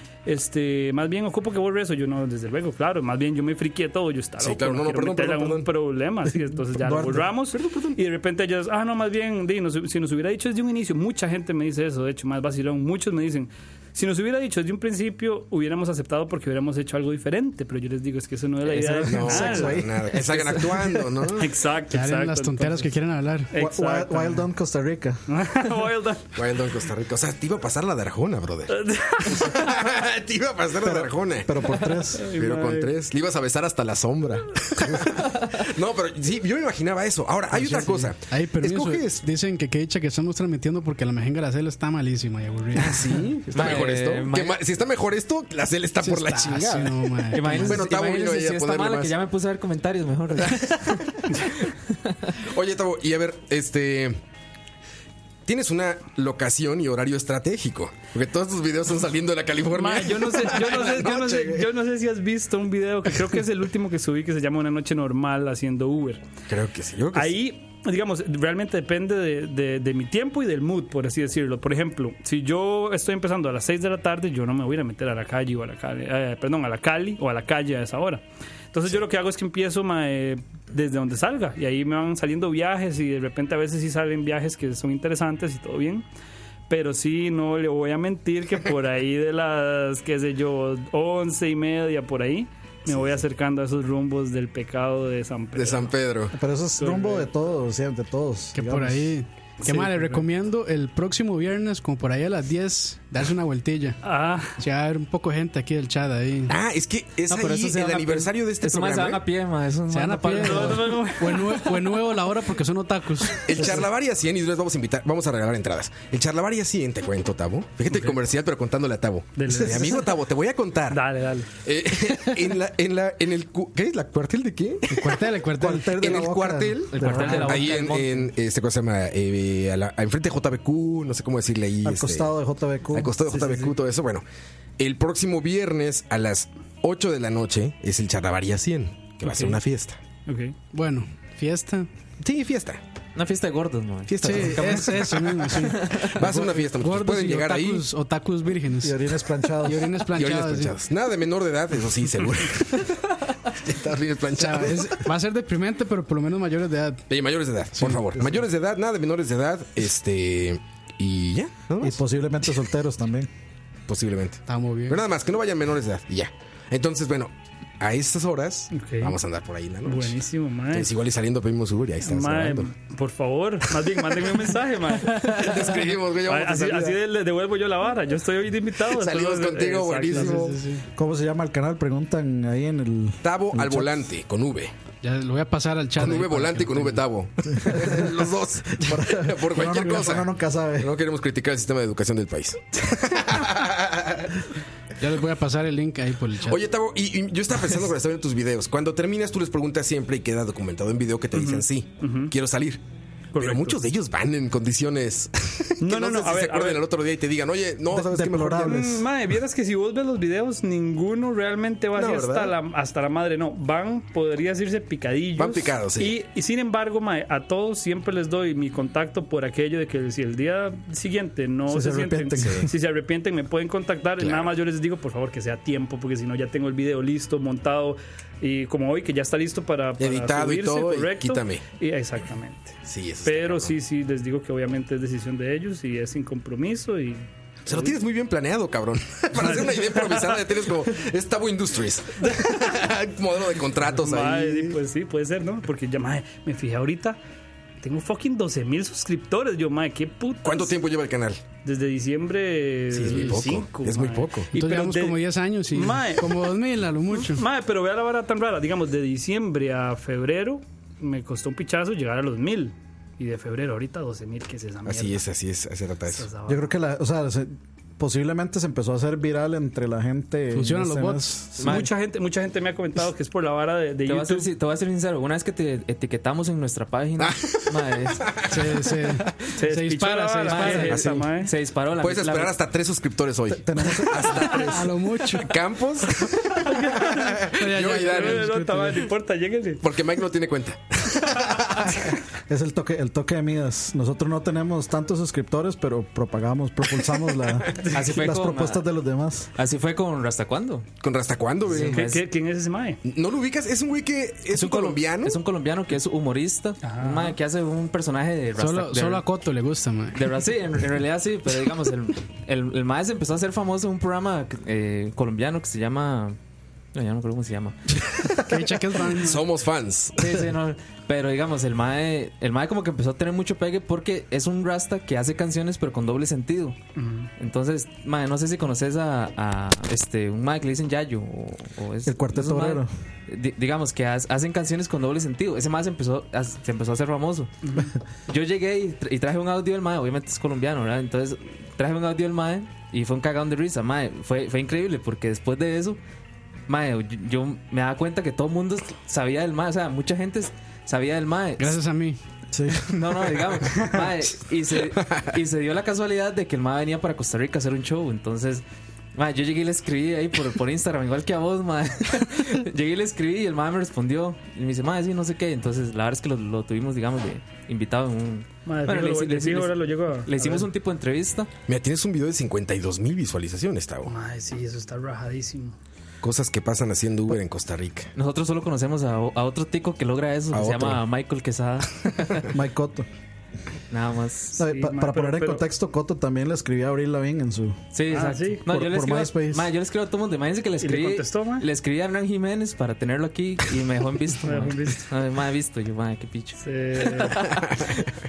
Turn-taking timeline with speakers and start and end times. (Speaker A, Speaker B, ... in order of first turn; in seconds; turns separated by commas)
Speaker A: 0.2-19.8, Speaker B: 4.4-5.7, Speaker C: 6.8-7.3, Speaker B: 7.5-8.0, Speaker D: 18.7-19.0, Speaker C: 18.7-20.1, Speaker B: 18.9-21.5, Speaker D: 20.1-21.0, Speaker A: 21.4-22.9, Speaker E: 21.9-23.5, Speaker A: 23.5-24.4, Speaker C: 23.6-25.2, Speaker A: 25.3-26.4, Speaker B: 26.4-31.6, Speaker A: 28.7-29.7, Speaker C: 30.8-32.3, Speaker A: 32.1-32.9, Speaker B: 32.3-39.2, Speaker E: 37.5-43.3, Speaker B: 42.8-49.1, Speaker D: 43.5-44.6, Speaker E: 46.0-47.8, Speaker D: 47.3-51.2, Speaker B: 52.4-54.2, Speaker B: 55.5-61.6, Speaker A: 59.7-66.2, Speaker B: 66.5-67.3, Speaker A: 67.1-86.0, Speaker A: 86.7-95.9, Speaker B: 92.9-93.2, Speaker B: 95.5-96.3, Speaker C: 96.3-99.2, Speaker A: 96.8-97.3, Speaker E: 98.5-104.0, Speaker A: 99.6-100.2, Speaker A: 104.0-104.6, Speaker E: 104.6-106.5, Speaker B: 106.5-109.2, Speaker D: 107.3-111.0, Speaker E: 109.9-113.7, Speaker A: 110.4-111.9, Speaker B: 113.5-121.0, Speaker A: 119.4-120.2, Speaker A: 120.9-121.5, Speaker B: 121.6-125.3, Speaker E: 124.9-126.1, Speaker C: 125.5-127.5, Speaker B: 126.0-132.3, Speaker D: 126.9-128.3, Speaker C: 131.8-133.1, Speaker B: 132.9-134.2, Speaker A: 133.3-133.8, Speaker B: 134.8-140.0, Speaker A: 139.2-139.6, Speaker A: 140.2-140.5, Speaker E: 140.7-141.9, Speaker B: 142.2-142.8, Speaker D: 143.1-146.2, Speaker B: 144.1-147.9, Speaker E: 144.2-149.0, Speaker C: 148.8-149.9, Speaker E: 149.6-150.7, Speaker B: 150.1-155.1, Speaker E: 154.4-157.0, Speaker B: 157.1-162.0, Speaker E: 157.8-158.1, Speaker C: 161.8-163.3, Speaker B: 163.9-170.2, Speaker E: 164.5-165.0, Speaker A: 168.7-169.2, Speaker A: 169.8-170.9, Speaker B: 170.7-172.7, Speaker A: 172.0-180.5, Speaker B: 175.1-177.0, Speaker B: 178.9-180.6, Speaker E: 180.1-180.8, Speaker C: 181.0-184.1, Speaker B: 183.2-184.7, Speaker E: 185.0-187.0, Speaker B: 186.0-194.4, Speaker C: 187.6-188.1, Speaker C: 188.8-190.9, Speaker E: 195.0-196.6, Speaker B: 196.4-202.8, Speaker A: 201.3-202.3, Speaker A: 203.3-203.8, Speaker B: 203.4-208.9, Speaker A: 205.8-206.8, Speaker C: 207.9-209.1, Speaker A: 208.6-238.0, Speaker B: 211.9-212.5, Speaker B: 215.4-216.2, Speaker C: 221.7-222.7, Speaker B: 222.4-222.7, Speaker B: 224.2-224.5, Speaker B: 230.0-231.6, Speaker B: 232.9-233.8, Speaker B: 237.7-244.8, Speaker A: 239.3-240.4, Speaker A: 242.2-242.5, Speaker A: 243.9-247.2, Speaker A: 247.8-250.7, Speaker B: 250.4-251.4, Speaker A: 251.6-255.2, Speaker B: 252.9-254.5, Speaker E: 253.1-253.3, Speaker E: 254.5-257.4, Speaker A: 255.7-256.4, Speaker A: 257.1-265.2, Speaker B: 264.9-266.3, Speaker A: 266.1-266.7, Speaker C: 266.5-271.9, Speaker E: 270.5-271.6, Speaker D: 271.6-271.9, Speaker A: 271.6-274.5, Speaker D: 274.1-278.2, Speaker B: 277.2-278.9, Speaker E: 278.5-281.0, Speaker A: 279.5-281.5, Speaker D: 280.5-282.5, Speaker B: 280.9-281.3, Speaker B: 282.0-288.5, Speaker C: 283.5-284.7, Speaker E: 284.7-285.5, Speaker A: 286.6-287.4, Speaker E: 287.5-289.1, Speaker A: 288.0-289.8, Speaker B: 289.8-292.1, Speaker C: 292.5-299.5, Speaker D: 297.9-298.9, Speaker D: 299.6-300.9, Speaker B: 301.0-302.1, Speaker D: 301.7-302.2, Speaker A: 301.8-303.0, Speaker B: 303.0-305.4, Speaker D: 304.5-309.2, Speaker A: 306.8-307.4, Speaker E: 308.6-310.3, Speaker D: 310.1-316.4, Speaker D: 316.9-317.9, Speaker B: 318.0-320.4, Speaker E: 318.4-319.5, Speaker D: 320.2-326.8, Speaker A: 327.0-327.3, Speaker D: 327.4-337.7, Speaker C: 332.0-332.9, Speaker A: 337.6-337.9, Speaker D: 338.3-346.0, Speaker D: 346.7-351.8, Speaker E: 351.6-352.2, Speaker C: 352.5-352.9, Speaker D: 352.9-358.6, Speaker D: 359.1-371.5, Speaker A: 368.7-370.7, Speaker B: 371.7-374.1, Speaker A: 374.1-375.8, Speaker B: 376.2-378.1, Speaker D: 378.1-382.4, Speaker B: 380.5-381.0, Speaker C: 382.5-383.1, Speaker D: 383.9-384.6, Speaker A: 384.6-385.6, Speaker C: 384.6-387.8, Speaker D: 387.9-397.2, Speaker A: 388.1-388.6, Speaker C: 388.7-389.7, Speaker A: 390.8-391.7, Speaker A: 394.4-395.1, Speaker A: 396.6-397.4, Speaker B: 397.6-397.9